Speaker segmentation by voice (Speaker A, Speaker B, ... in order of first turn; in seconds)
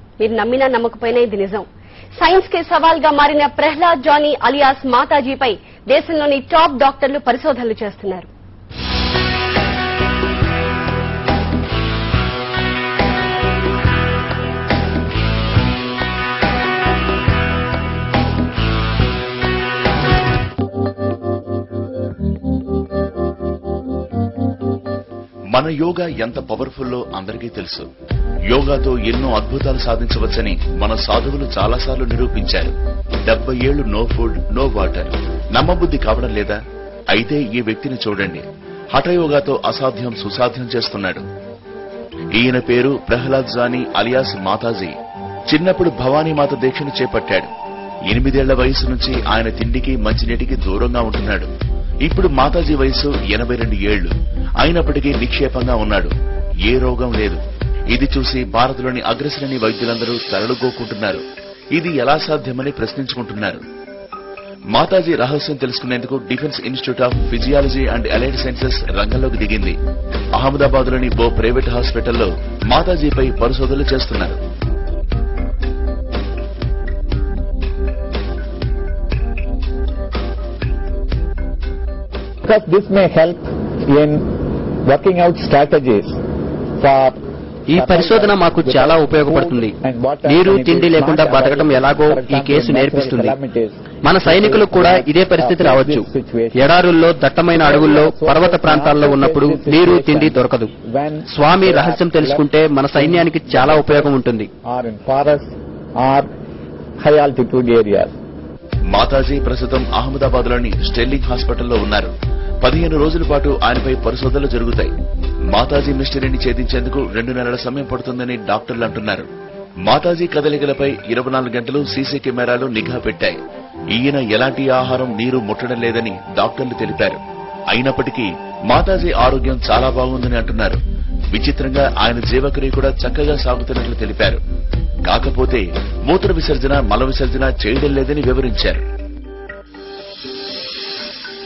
Speaker A: 0.2-1.6, 2.2-8.3
Speaker B: 25.5-27.9, 28.5-32.7, 33.3-36.6, 37.1-41.2, 42.3-44.9, 45.5-47.5, 48.1-51.5, 52.0-56.1, 56.6-61.2, 61.7-63.6, 64.7-69.7, 70.3-74.4, 108.9-112.1, 112.6-114.9, 115.5-119.3, 119.8-123.4, 123.9-127.2, 127.7-130.8, 131.3-134.4, 135.1-138.8
Speaker C: 82.4-86.2, 86.8-87.2, 87.7-96.8, 97.5-104.1, 104.7-106.3, 107.0-108.2
Speaker D: 87.7-93.4, 94.0-100.7, 101.3-104.5